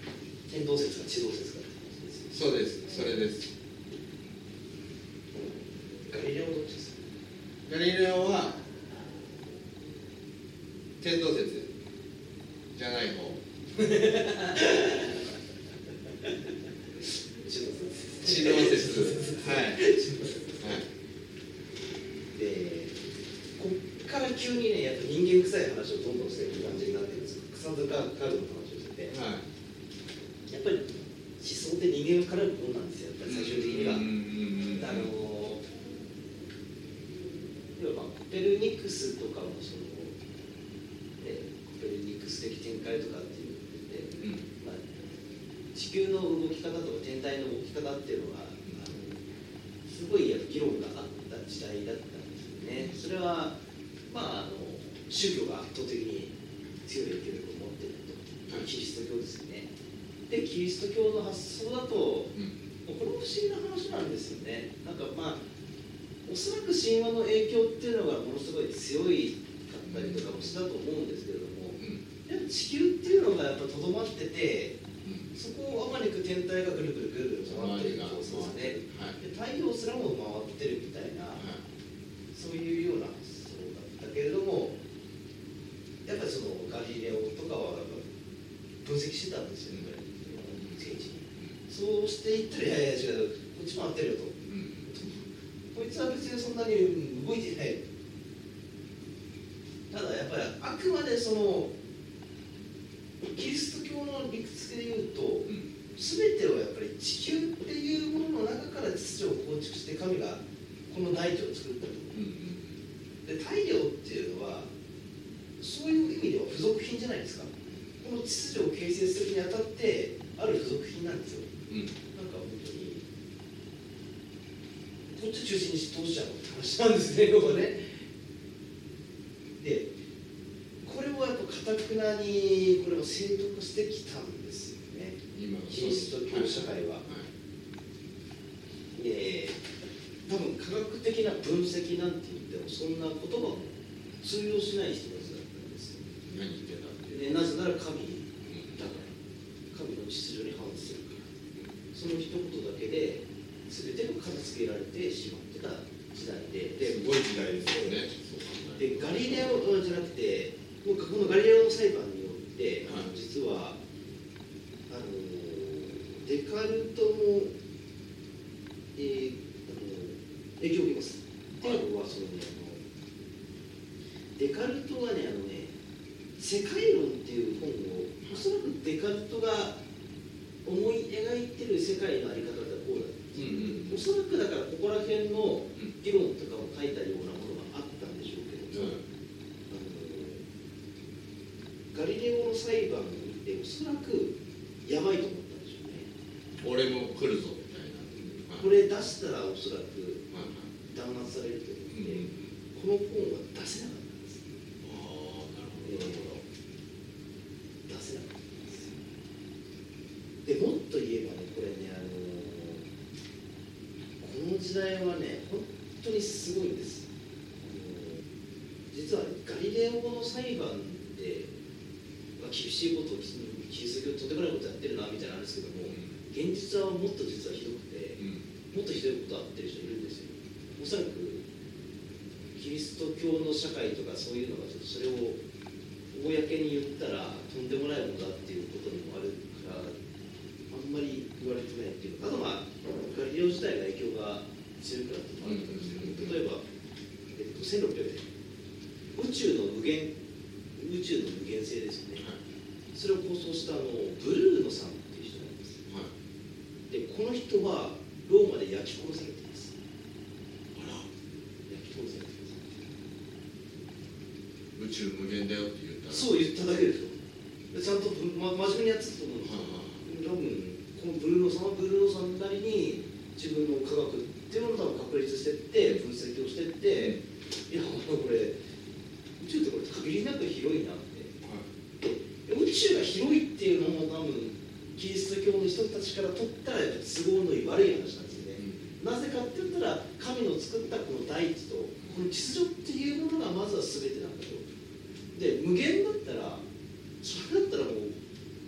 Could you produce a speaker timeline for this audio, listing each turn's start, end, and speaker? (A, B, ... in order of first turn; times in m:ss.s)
0:00.5-0:03.2 A
0:02.3-0:03.5 B
0:06.1-0:07.0 A
0:07.6-0:08.6 B
0:11.0-0:11.7 B
0:12.7-0:13.4 B
0:13.8-0:15.3 A
0:17.0-0:20.8 A
0:18.2-0:19.8 B
0:20.6-0:20.8 B
0:22.3-0:23.0 A
0:23.6-0:29.1 A
0:29.1-0:29.4 B
0:30.5-0:34.1 A
0:33.2-0:35.1 B
0:34.7-0:35.6 A
0:37.8-0:40.2 A
0:41.2-0:44.8 A
0:44.2-0:44.4 B
0:45.7-0:49.2 A
0:49.8-0:53.6 A
0:54.1-0:59.7 A
1:00.3-1:02.3 A
1:02.8-1:05.4 A
1:06.2-1:14.8 A
1:09.8-1:10.5 B
1:11.8-1:12.0 B
1:15.0-1:15.3 B
1:15.3-1:21.4 A
1:17.4-1:19.2 B
1:21.4-1:21.6 B
1:22.3-1:24.8 A
1:26.0-1:28.0 A
1:28.8-1:37.8 A
1:34.5-1:34.9 B
1:39.9-1:41.7 A
1:43.2-1:52.2 A
1:52.1-1:52.8 B
1:53.2-1:54.7 A
1:55.6-2:01.5 A
2:01.7-2:01.9 B
2:02.1-2:03.1 A
2:05.1-2:08.0 A
2:09.6-2:09.9 A
2:10.8-2:17.0 A
2:15.3-2:17.3 B
2:18.9-2:19.6 A
2:20.3-2:26.1 A
2:26.2-2:27.3 B
2:27.1-2:29.1 A
2:28.4-2:28.9 B
2:29.7-2:31.3 A
2:31.9-2:38.0 A
2:36.8-2:39.5 B
2:38.8-2:43.8 A
2:44.9-2:47.5 A
2:48.9-2:52.8 A
2:54.4-2:55.7 A
2:56.4-2:59.8 A
3:00.6-3:09.0 A
3:03.3-3:04.0 B
3:08.7-3:09.0 B
3:09.7-3:10.4 A
3:11.9-3:16.1 A
3:16.6-3:18.7 B
3:18.6-3:20.2 A
3:20.3-3:20.7 B
3:20.8-3:24.4 A
3:21.9-3:22.5 B
3:24.8-3:26.4 B
3:25.8-3:26.4 A
3:27.9-3:28.9 A
3:30.4-3:32.8 A
3:34.2-3:37.0 A
3:37.6-3:38.2 A
3:38.9-3:41.5 A
3:42.4-3:51.4 A
3:48.2-3:48.4 B
3:52.6-3:55.4 A
3:56.1-3:59.9 A
4:00.7-4:06.6 A
4:05.4-4:06.4 B
4:07.3-4:08.3 A
4:09.1-4:10.1 A
4:10.8-4:12.2 A
4:12.9-4:15.8 A
4:15.9-4:16.1 B
4:16.9-4:19.7 A
4:20.7-4:21.1 B
4:21.7-4:22.8 A
4:24.7-4:26.3 B
4:26.1-4:27.2 A
4:27.7-4:37.2 A
4:29.4-4:30.0 B
4:36.9-4:37.2 B
4:37.7-4:38.6 A
4:39.4-4:41.4 A
4:41.4-4:41.7 B
4:42.0-4:54.6 A
4:48.6-4:49.0 B
4:55.3-4:56.6 A
4:57.2-4:58.2 A